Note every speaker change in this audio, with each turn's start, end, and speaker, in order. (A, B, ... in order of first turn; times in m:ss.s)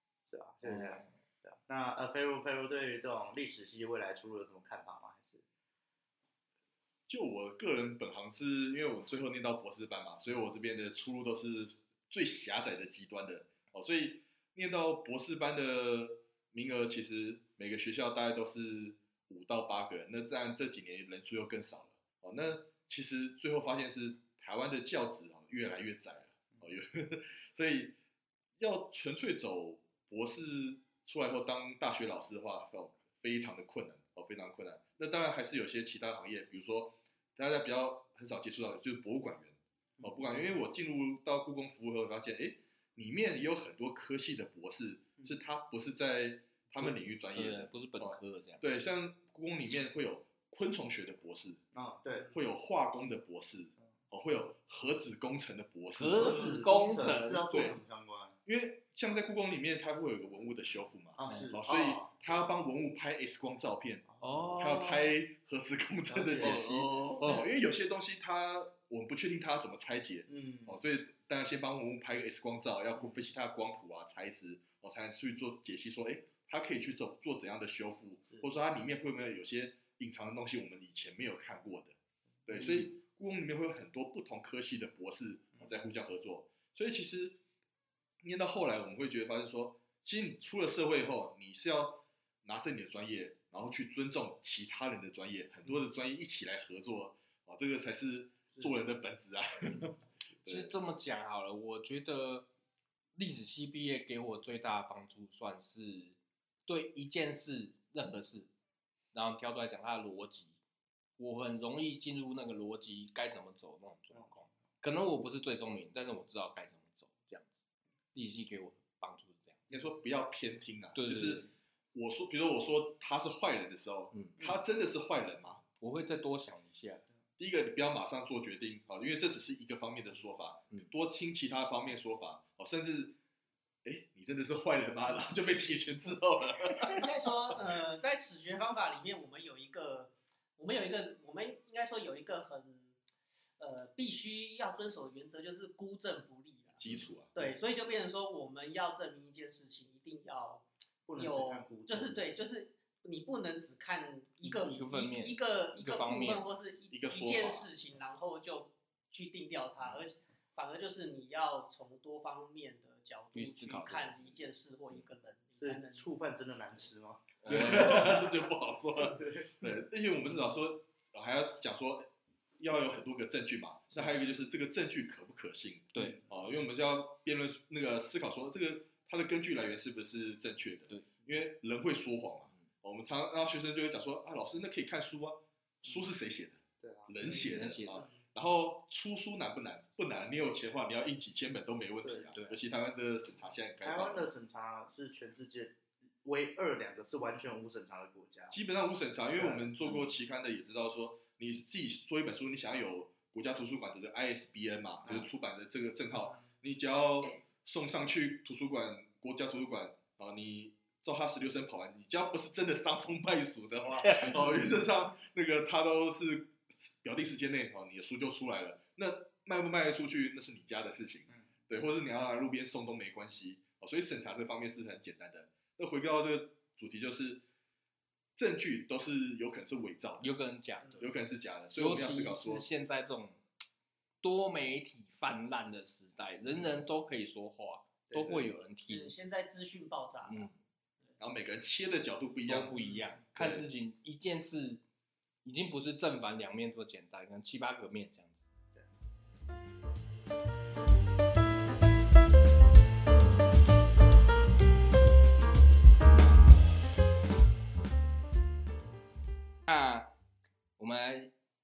0:00.3-0:05.4 A
0:00.6-0:01.1 B
0:07.1-0:27.9 C
0:28.6-0:51.6 C
0:46.8-0:48.6 B
0:51.7-0:52.3 A
0:52.3-0:56.5 C
0:56.0-0:57.5 B
0:56.1-0:58.4 A
0:57.5-0:57.8 C
0:58.4-1:27.4 C
1:01.2-1:02.1 A
1:01.3-1:01.6 B
1:04.2-1:05.1 B
1:06.1-1:06.6 A
1:06.4-1:07.4 B
1:10.3-1:10.8 A
1:22.5-1:22.8 A
1:28.2-1:40.7 C
1:40.5-1:42.5 B
1:43.2-1:48.5 B
1:49.1-1:50.5 B
1:51.2-1:57.6 B
1:58.1-1:59.6 B
1:59.7-2:05.6 C
2:01.0-2:01.5 B
2:05.8-2:07.0 B
2:07.4-2:13.2 C
2:13.8-2:17.0 C
2:16.9-2:23.0 D
2:23.6-2:26.8 D
2:26.8-2:27.3 C
2:27.3-2:30.6 D
2:31.1-2:32.3 A
2:31.2-2:46.0 D
2:34.4-2:36.4 B
2:36.9-2:37.7 C
2:43.3-2:44.3 B
2:45.6-2:48.2 A
2:47.4-2:48.2 B
2:47.5-3:14.3 C
2:49.1-2:49.4 A
2:55.9-2:56.2 B
3:06.8-3:07.4 A
3:07.3-3:08.1 B
3:12.0-3:12.3 A
3:12.3-3:12.6 B
3:13.8-3:18.6 A
3:18.5-3:47.4 C
3:19.3-3:19.9 A
3:34.0-3:34.5 B
3:48.4-3:50.3 C
3:50.2-3:51.1 B
3:51.0-3:52.6 C
3:51.8-3:53.4 B
3:54.2-3:59.1 B
3:58.1-3:58.5 A
3:58.8-4:00.5 D
4:00.3-4:00.5 B
4:01.2-4:02.8 C
4:02.5-4:04.8 B
4:03.3-4:03.7 C
4:05.4-4:08.4 B
4:19.7-4:20.1 B
4:20.8-4:21.3 B